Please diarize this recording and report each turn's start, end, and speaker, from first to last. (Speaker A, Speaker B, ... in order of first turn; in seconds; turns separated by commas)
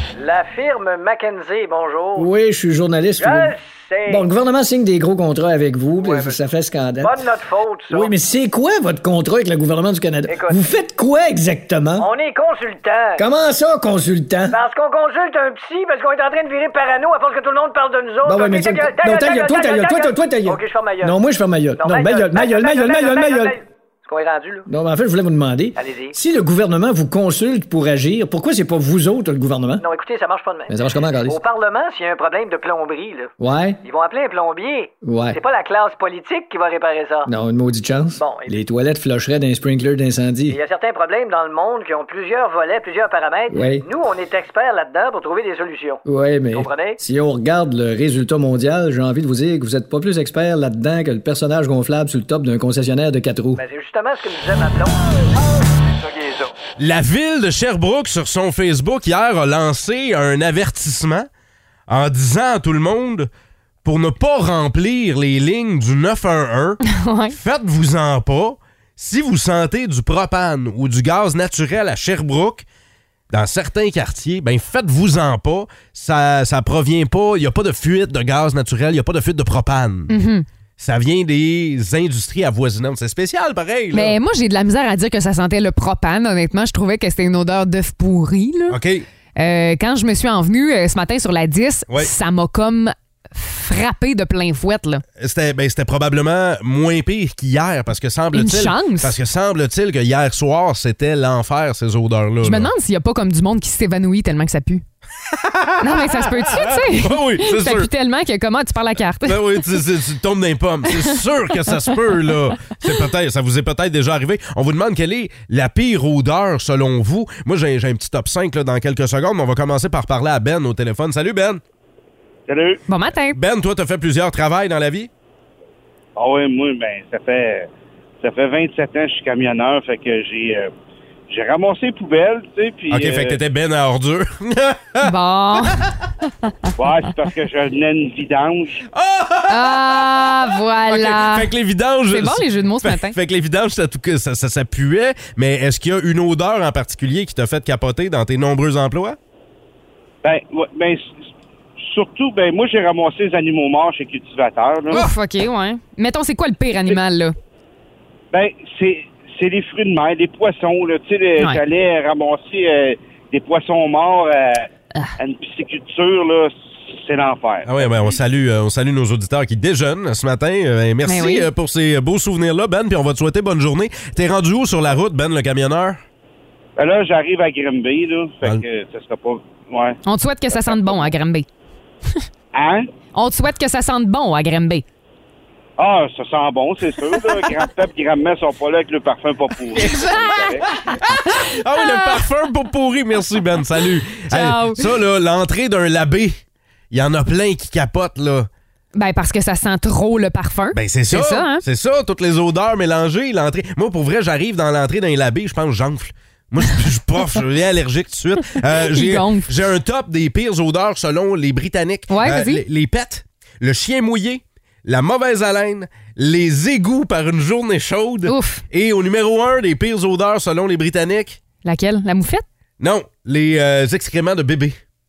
Speaker A: 0.2-2.3, Speaker B: 2.2-3.5, Speaker A: 3.2-4.3, Speaker B: 4.1-7.2, Speaker A: 6.0-6.5, Speaker A: 7.0-8.2, Speaker B: 7.9-12.1, Speaker A: 10.3-10.7, Speaker A: 12.0-13.2, Speaker B: 13.2-14.6, Speaker A: 14.5-21.2, Speaker B: 18.2-23.6, Speaker A: 21.8-24.7, Speaker B: 24.7-29.8, Speaker A: 25.8-26.2, Speaker A: 29.8-37.3, Speaker B: 30.7-31.4, Speaker B: 33.4-33.8, Speaker B: 35.0-35.4, Speaker B: 37.3-40.6, Speaker A: 38.2-38.6, Speaker A: 40.5-47.0, Speaker B: 43.5-43.9, Speaker B: 46.1-53.6, Speaker A: 53.5-56.5, Speaker C: 56.8-61.3, Speaker C: 61.9-63.3, Speaker C: 63.8-72.7, Speaker D: 66.9-67.4, Speaker C: 73.3-80.1, Speaker D: 80.1-80.5, Speaker C: 80.8-84.2, Speaker D: 83.9-88.8, Speaker C: 88.7-89.1, Speaker D: 89.4-95.0, Speaker C: 95.2-102.7, Speaker D: 98.3-99.2, Speaker D: 102.4-104.8, Speaker C: 105.3-107.9, Speaker D: 105.8-109.6, Speaker C: 109.2-121.6, Speaker E: 122.5-122.8, Speaker D: 122.9-123.4, Speaker C: 123.3-125.1, Speaker E: 126.2-127.7, Speaker E: 128.2-130.7, Speaker E: 131.3-133.4, Speaker C: 132.9-135.1, Speaker D: 135.0-135.9, Speaker D: 136.4-136.7, Speaker E: 136.8-138.8, Speaker C: 138.9-149.2, Speaker D: 139.5-141.5, Speaker D: 142.1-143.2, Speaker E: 150.2-151.1, Speaker E: 151.8-155.1, Speaker D: 154.9-157.3, Speaker E: 158.3-164.7, Speaker E: 165.2-168.2, Speaker C: 167.7-176.0, Speaker D: 171.1-171.5, Speaker E: 176.8-180.0, Speaker D: 180.1-181.5, Speaker E: 182.5-182.9, Speaker D: 183.2-184.8, Speaker E: 185.8-190.7, Speaker C: 189.8-196.4, Speaker D: 189.9-192.2, Speaker D: 194.3-194.9, Speaker C: 196.9-198.5, Speaker D: 198.9-201.6, Speaker C: 200.7-221.4, Speaker D: 208.6-209.5, Speaker D: 212.1-212.6, Speaker D: 218.3-218.6, Speaker D: 221.6-222.4, Speaker C: 222.8-224.8